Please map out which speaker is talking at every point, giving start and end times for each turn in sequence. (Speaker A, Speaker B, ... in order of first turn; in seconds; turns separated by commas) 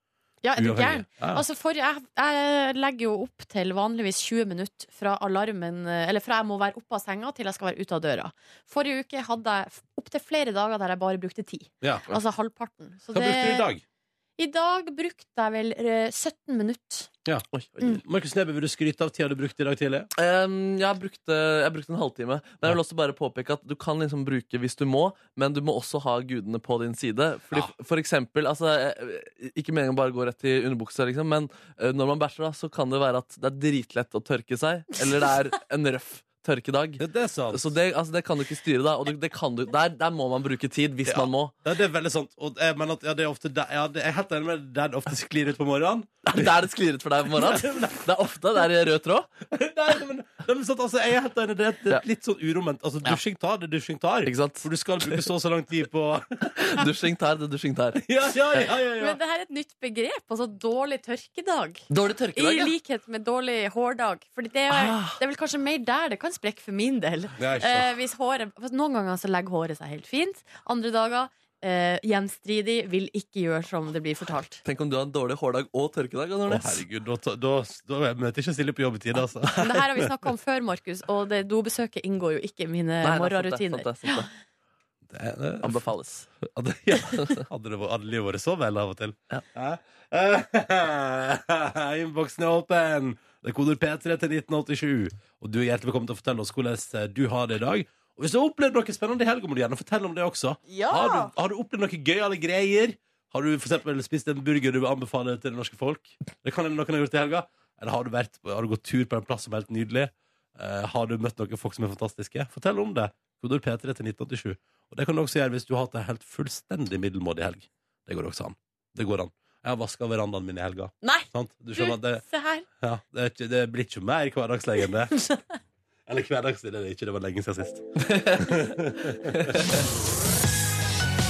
Speaker A: 0.4-13.7, Speaker B: 0.6-1.4, Speaker B: 13.1-13.8, Speaker A: 14.4-17.1, Speaker B: 17.2-20.1, Speaker C: 17.5-18.0, Speaker C: 20.1-41.5, Speaker B: 37.0-37.7, Speaker B: 41.1-46.5, Speaker C: 46.2-49.3, Speaker B: 47.3-48.0, Speaker B: 49.5-56.8, Speaker C: 54.2-55.3, Speaker C: 56.6-58.7, Speaker B: 58.0-59.2, Speaker A: 59.0-61.8, Speaker C: 61.9-62.7, Speaker A: 62.3-74.6, Speaker C: 64.7-65.2, Speaker B: 67.4-67.9, Speaker C: 74.6-76.8, Speaker B: 76.5-80.0, Speaker A: 79.5-84.2, Speaker C: 83.0-84.3, Speaker B: 85.1-85.9, Speaker C: 85.6-86.3, Speaker B: 86.4-122.2, Speaker A: 100.7-101.3, Speaker A: 121.0-122.7, Speaker B: 122.8-125.2, Speaker A: 125.1-125.4, Speaker B: 126.1-129.6, Speaker C: 128.0-128.7, Speaker C: 129.3-129.8